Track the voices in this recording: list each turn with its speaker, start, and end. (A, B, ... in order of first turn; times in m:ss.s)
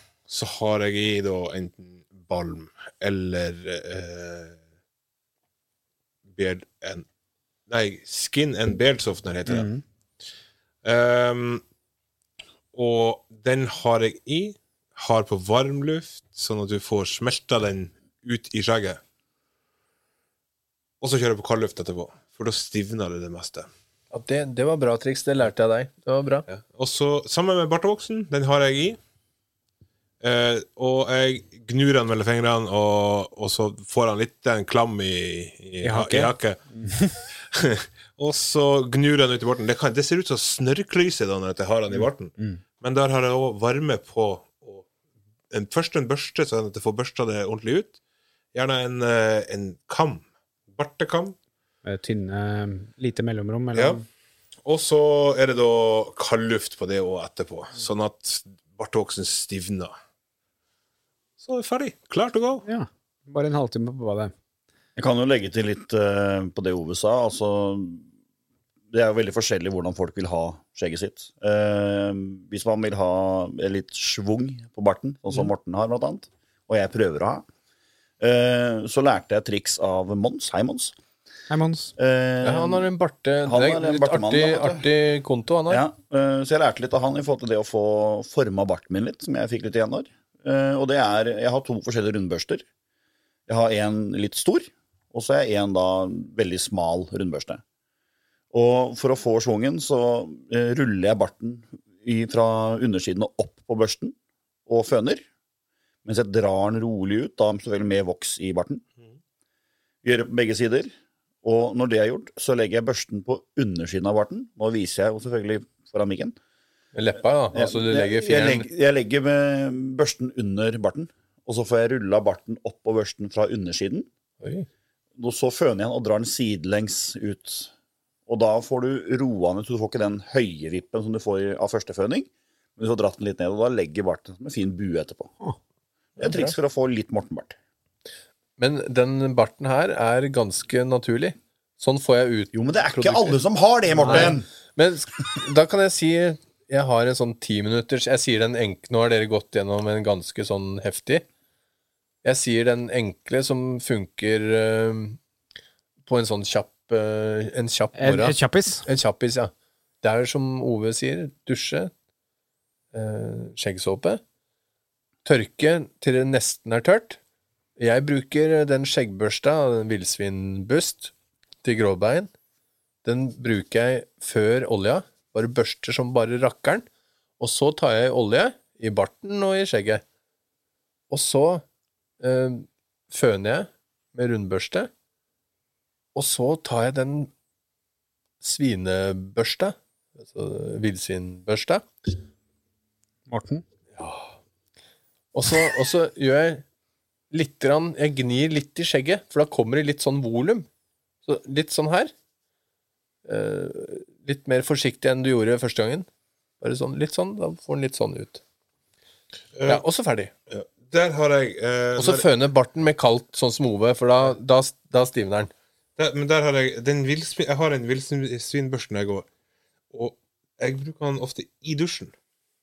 0:00.2-0:04.6 A
0:06.3-0:07.0 A
0:07.7-0:09.7 A
0:09.5-0:09.8 B
0:10.8-0:11.6 A
0:12.7-0:19.0 A
0:21.0-0:23.7 A
0:24.1-0:26.4 C
0:26.5-0:29.0 A
0:30.2-0:36.6 A
0:35.8-0:37.2 B
0:37.3-0:44.9 A
0:41.9-0:42.6 B
0:45.5-0:48.0 A
0:48.5-0:51.4 A
0:51.8-0:54.0 B
0:53.7-0:54.0 A
0:54.6-0:59.9 A
1:01.4-1:02.6 A
1:02.6-1:04.3 B
1:05.0-1:08.0 D
1:08.9-1:17.4 D
1:18.2-1:20.9 D
1:21.5-1:21.9 B
1:22.0-1:22.9 D
1:22.4-1:25.8 C
1:23.4-1:24.8 D
1:25.7-1:32.6 D
1:33.5-1:37.6 D
1:38.5-1:44.2 D
1:44.7-1:45.2 D
1:46.0-1:48.8 D
1:50.0-1:50.9 D
1:51.4-1:56.4 D
1:56.9-1:58.7 C
1:57.5-2:04.1 D
2:04.4-2:04.7 C
2:05.2-2:07.7 D
2:08.3-2:15.3 D
2:16.2-2:17.6 D
2:16.2-2:16.5 C
2:18.6-2:23.4 C
2:22.5-2:24.4 D
2:24.0-2:31.2 C
2:24.0-2:24.4 B
2:32.2-2:35.2 C
2:36.0-2:39.5 C
2:38.0-2:38.8 B
2:40.0-2:41.9 C
2:42.9-2:44.2 C
2:45.2-2:47.2 C
2:47.8-2:52.3 C
2:53.0-2:56.9 C
2:57.4-3:00.0 C
3:01.1-3:01.6 C
3:02.2-3:04.9 C
3:06.1-3:07.3 C
3:08.4-3:12.1 C
3:13.3-3:13.6 B
3:14.0-3:14.4 C
3:15.3-3:16.6 C
3:17.3-3:20.7 C
3:21.2-3:22.1 C
3:23.2-3:26.1 C
3:26.6-3:28.4 C
3:29.5-3:29.8 A
3:29.7-3:30.3 C
3:30.5-3:32.2 A
3:32.0-3:35.5 C
3:36.0-3:39.3 A
3:39.9-3:42.1 A